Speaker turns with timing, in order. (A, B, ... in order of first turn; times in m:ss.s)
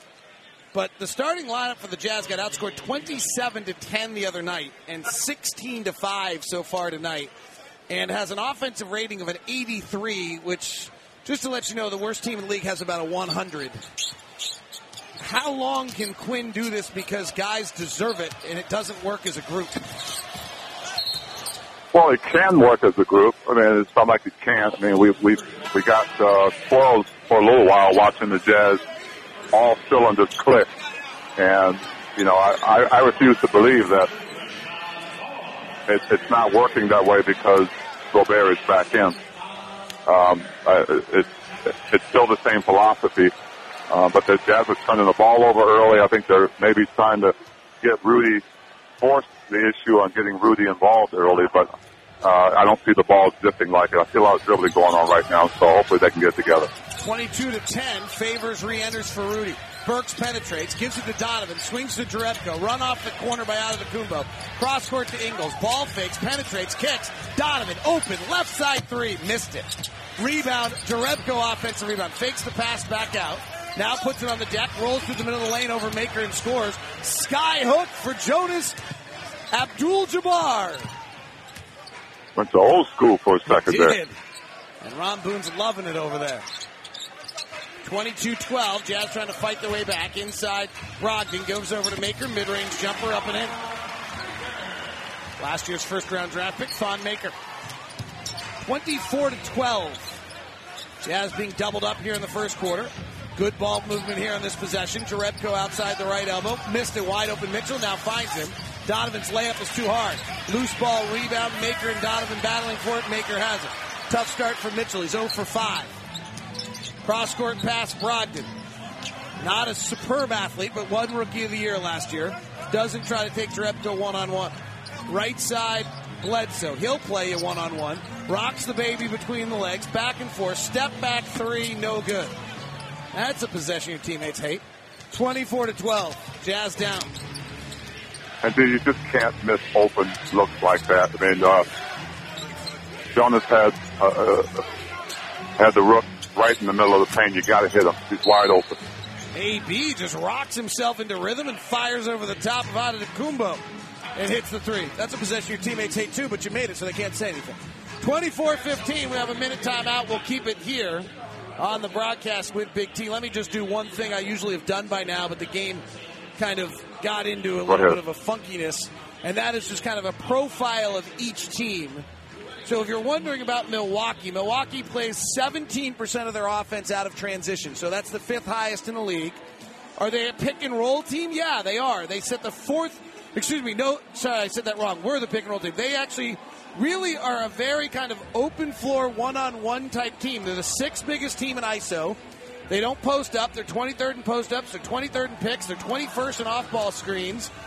0:00.7-0:07.3 A
0:07.9-0:13.8 A
0:15.2-0:19.8 A
0:21.9-0:28.8 B
0:29.5-0:30.7 B
0:31.4-0:34.1 B
0:35.9-0:39.2 B
0:40.1-0:43.3 B
0:43.9-0:48.4 B
0:49.0-0:51.7 B
0:52.2-0:56.7 B
0:57.0-1:18.8 A
1:19.5-1:20.9 A
1:22.4-1:24.0 B
1:23.5-1:24.2 A
1:24.8-1:26.5 A
1:27.8-1:33.6 A
1:35.4-1:37.4 A
1:38.6-1:40.2 A
1:41.0-1:55.9 A
1:57.0-1:58.6 A
1:59.4-2:04.6 A
2:05.1-2:12.3 A
2:13.1-2:17.1 A
2:18.4-2:21.7 B
2:23.1-2:24.6 B
2:25.6-2:28.8 B
2:29.3-2:33.6 A
2:34.2-2:45.8 A
2:46.4-2:52.1 A
2:47.7-2:48.0 B
2:52.6-2:59.4 A
3:00.0-3:12.2 A
3:12.7-3:17.5 A